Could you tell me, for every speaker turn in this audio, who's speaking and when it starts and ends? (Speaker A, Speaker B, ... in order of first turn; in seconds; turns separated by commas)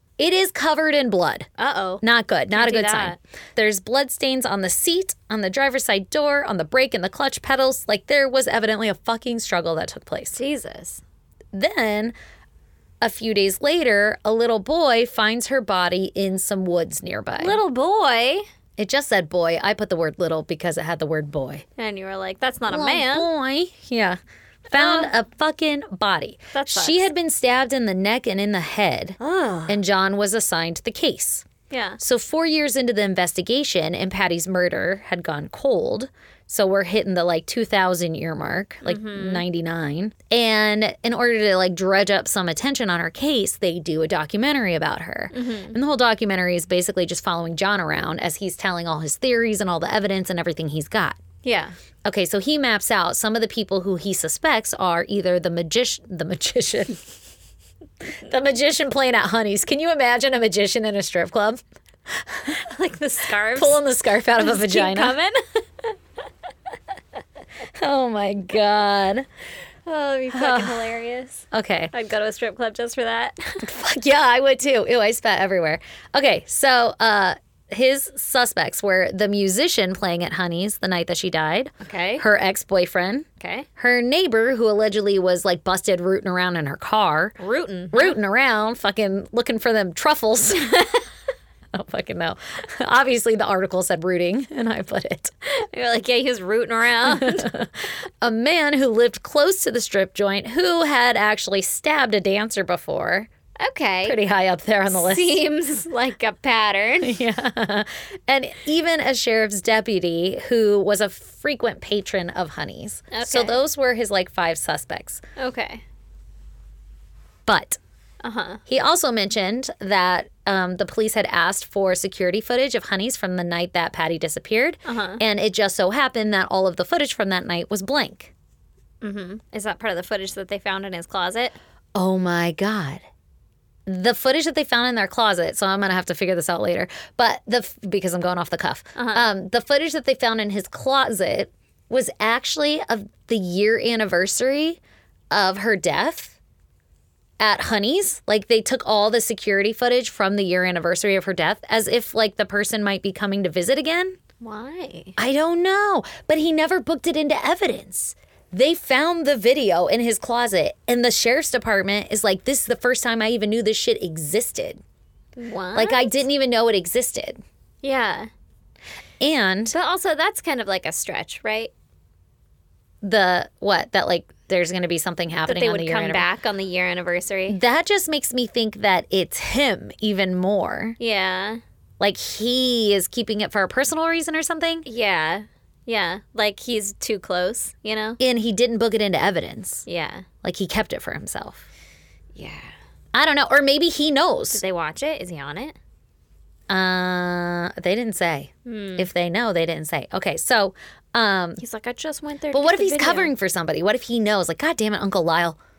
Speaker A: 0.2-1.5, Speaker B: 1.6-3.2, Speaker A: 2.0-10.4, Speaker B: 10.3-11.0, Speaker A: 11.5-12.2, Speaker A: 13.0-17.6, Speaker B: 17.4-18.4, Speaker A: 18.8-21.6, Speaker B: 21.8-23.3, Speaker A: 22.7-31.4, Speaker B: 24.7-25.1, Speaker B: 26.5-27.1, Speaker B: 29.2-29.8, Speaker B: 31.7-32.0, Speaker A: 32.0-51.2, Speaker B: 38.8-39.4, Speaker B: 45.3-45.8, Speaker B: 51.4-51.8, Speaker A: 52.0-57.0, Speaker A: 58.2-62.6, Speaker B: 62.5-63.8, Speaker A: 63.5-65.2, Speaker B: 64.4-65.9, Speaker A: 67.7-69.3, Speaker B: 69.9-73.7, Speaker A: 70.3-70.9, Speaker A: 71.5-71.9, Speaker A: 73.6-83.3, Speaker B: 81.8-82.2, Speaker B: 83.4-83.7, Speaker A: 83.8-87.4, Speaker B: 87.4-88.2, Speaker A: 87.9-91.0, Speaker A: 91.7-95.3, Speaker B: 95.5-97.5, Speaker A: 97.0-103.3, Speaker B: 103.6-104.2, Speaker A: 104.0-105.4, Speaker B: 104.9-107.2, Speaker A: 107.0-115.2, Speaker B: 113.1-113.6, Speaker B: 115.4-115.8, Speaker A: 117.5-117.8, Speaker B: 118.2-118.6, Speaker A: 118.7-128.3, Speaker B: 124.8-125.2, Speaker B: 129.0-131.6, Speaker A: 131.9-133.0, Speaker A: 133.9-144.8, Speaker B: 139.0-139.3, Speaker A: 145.3-146.4, Speaker A: 147.4-154.2, Speaker B: 154.4-155.2, Speaker A: 155.2-164.8, Speaker B: 165.4-166.2, Speaker A: 165.8-167.4, Speaker B: 167.8-168.3, Speaker A: 169.2-169.8, Speaker B: 169.7-171.7, Speaker A: 173.0-176.3, Speaker B: 175.4-177.6, Speaker A: 177.5-181.0, Speaker B: 181.0-181.6, Speaker A: 182.0-184.9, Speaker B: 184.9-188.2, Speaker A: 188.2-189.9, Speaker B: 189.9-190.3, Speaker A: 190.4-191.7, Speaker B: 192.4-192.7, Speaker A: 193.1-194.6, Speaker B: 194.5-195.8, Speaker A: 196.7-201.6, Speaker B: 198.7-199.1, Speaker B: 201.6-203.3, Speaker A: 202.5-205.6